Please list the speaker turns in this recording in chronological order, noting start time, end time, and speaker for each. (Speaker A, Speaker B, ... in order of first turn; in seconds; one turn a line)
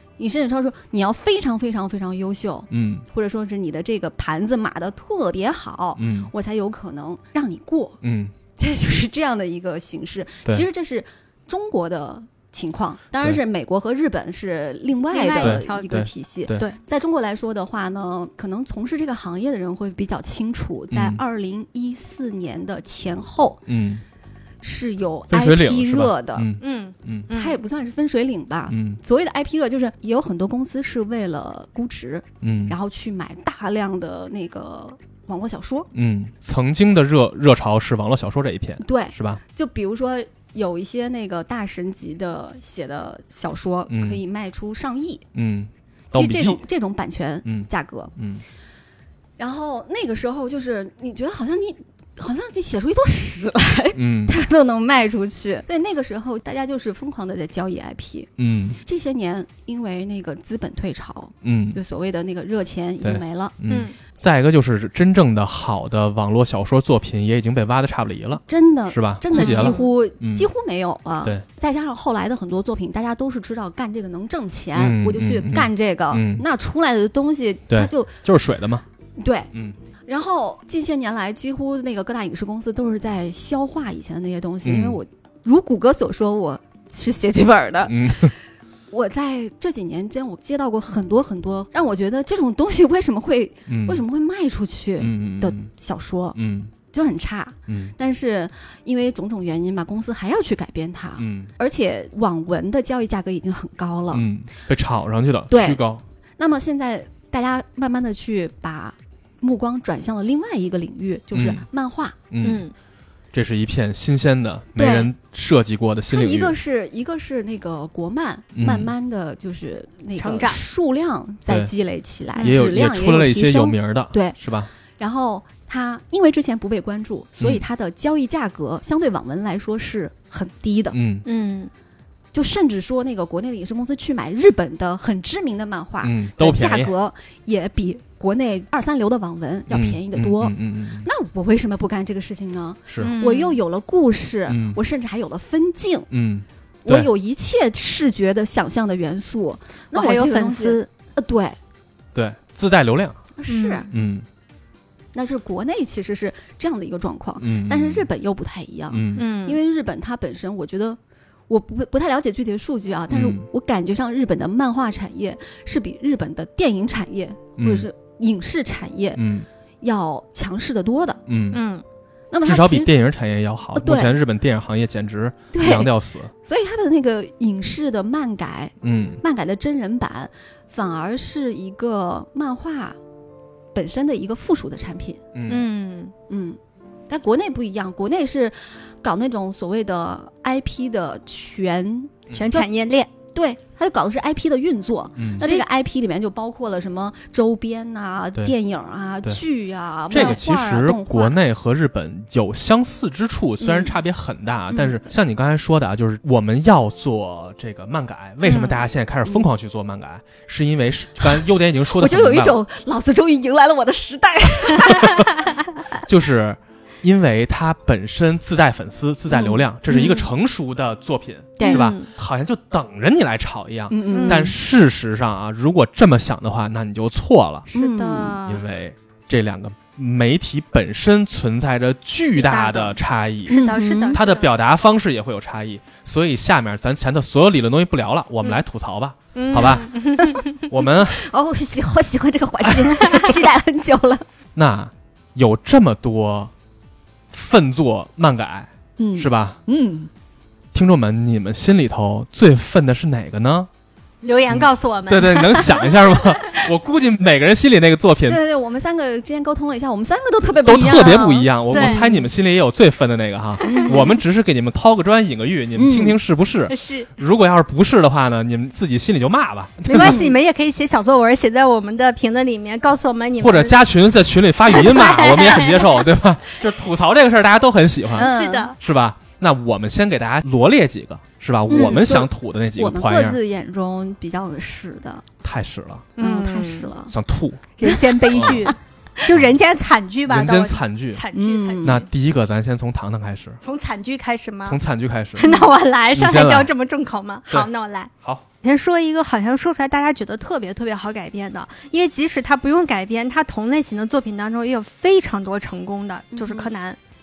Speaker A: 0.2-8.0
Speaker B: 2.7-3.0
Speaker B: 6.0-6.3
Speaker B: 8.0-8.3
Speaker A: 8.6-23.6
Speaker C: 15.1-16.0
Speaker B: 15.4-16.7
Speaker B: 20.9-21.2
Speaker B: 23.7-24.0
Speaker A: 24.6-26.5
Speaker B: 25.3-27.3
Speaker C: 26.6-27.6
Speaker A: 27.3-35.9
Speaker B: 28.7-29.0
Speaker B: 32.4-32.8
Speaker B: 35.9-39.4
Speaker A: 38.8-45.2
Speaker B: 43.9-44.2
Speaker B: 45.3-46.6
Speaker A: 46.1-48.1
Speaker B: 47.4-48.4
Speaker A: 49.4-58.3
Speaker B: 53.9-54.3
Speaker B: 58.4-58.8
Speaker A: 58.8-63.5
Speaker B: 61.4-61.8
Speaker B: 63.0-70.5
Speaker C: 63.7-63.9
Speaker A: 68.5-78.1
Speaker C: 69.3-69.8
Speaker B: 74.8-76.4
Speaker B: 77.7-78.8
Speaker A: 79.2-79.5
Speaker A: 80.1-88.3
Speaker B: 84.6-85.0
Speaker B: 87.9-88.3
Speaker A: 88.9-96.4
Speaker B: 93.7-94.0
Speaker B: 95.0-95.7
Speaker B: 96.3-96.7
Speaker A: 96.9-104.2
Speaker B: 97.7-97.9
Speaker B: 101.2-101.5
Speaker B: 104.1-106.0
Speaker A: 105.5-105.8
Speaker A: 106.4-112.2
Speaker B: 111.3-111.6
Speaker B: 112.3-112.6
Speaker C: 112.4-112.7
Speaker B: 113.3-116.5
Speaker A: 114.8-115.1
Speaker A: 116.1-124.4
Speaker B: 118.5-118.9
Speaker C: 120.2-120.6
Speaker B: 122.4-124.7
Speaker A: 125.0-131.0
Speaker B: 130.9-131.2
Speaker C: 131.2-131.7
Speaker A: 132.3-146.1
Speaker B: 136.0-136.9
Speaker B: 139.7-141.1
Speaker B: 142.9-143.1
Speaker C: 143.0-143.6
Speaker B: 144.5-144.8
Speaker B: 146.1-147.1
Speaker A: 146.8-151.6
Speaker C: 149.9-150.9
Speaker B: 152.1-153.2
Speaker A: 153.4-153.9
Speaker C: 153.5-153.9
Speaker B: 153.9-154.2
Speaker A: 155.1-169.2
Speaker B: 157.4-158.1
Speaker B: 158.9-159.2
Speaker C: 159.2-159.6
Speaker B: 163.1-163.5
Speaker B: 167.6-167.9
Speaker B: 169.2-169.5
Speaker A: 169.8-171.2
Speaker B: 171.3-171.6
Speaker C: 171.5-171.8
Speaker A: 172.3-172.9
Speaker B: 172.4-176.3
Speaker A: 173.7-174.1
Speaker A: 175.5-175.9
Speaker A: 176.4-183.0
Speaker B: 178.8-179.2
Speaker A: 183.7-185.2
Speaker B: 185.3-185.6
Speaker C: 185.5-186.1
Speaker A: 186.3-186.6
Speaker A: 187.1-192.7
Speaker C: 192.3-193.1
Speaker A: 193.3-201.4
Speaker B: 195.2-195.4
Speaker C: 195.4-195.7
Speaker B: 200.1-212.6
Speaker A: 203.6-203.9
Speaker A: 204.7-205.0
Speaker C: 208.4-208.8
Speaker A: 211.9-215.3
Speaker B: 216.0-227.7
Speaker A: 219.3-219.6
Speaker C: 219.9-220.3
Speaker A: 221.6-221.9
Speaker C: 221.6-222.1
Speaker A: 223.9-224.5
Speaker C: 224.1-224.5
Speaker A: 227.7-228.4
Speaker C: 227.7-228.6
Speaker B: 228.4-239.9
Speaker C: 232.3-234.5
Speaker A: 233.5-234.2
Speaker C: 239.3-240.7
Speaker B: 240.6-241.2
Speaker A: 241.1-244.2
Speaker B: 242.7-243.0
Speaker B: 244.5-246.5
Speaker B: 247.3-249.6
Speaker A: 249.0-250.1
Speaker B: 250.7-253.7
Speaker C: 254.2-256.2
Speaker B: 254.5-258.4
Speaker A: 258.2-262.2
Speaker B: 260.6-270.2
Speaker C: 261.7-262.1
Speaker A: 263.6-264.2
Speaker C: 263.7-264.0
Speaker A: 265.8-266.2
Speaker C: 266.7-267.1
Speaker C: 269.9-273.8
Speaker A: 270.0-270.3
Speaker B: 273.4-283.4
Speaker C: 274.7-276.0
Speaker A: 278.1-278.7
Speaker C: 278.1-278.8
Speaker A: 281.7-285.2
Speaker B: 285.4-286.1
Speaker C: 286.2-286.9
Speaker A: 286.2-287.1
Speaker B: 287.1-287.6
Speaker C: 287.8-292.1
Speaker A: 287.8-288.7
Speaker B: 288.3-288.7
Speaker B: 290.3-291.2
Speaker A: 291.3-292.0
Speaker B: 291.8-293.6
Speaker C: 293.6-294.8
Speaker B: 294.6-295.5
Speaker C: 295.4-298.1
Speaker A: 295.4-295.7
Speaker B: 296.1-296.7
Speaker C: 298.6-307.0
Speaker A: 306.3-306.7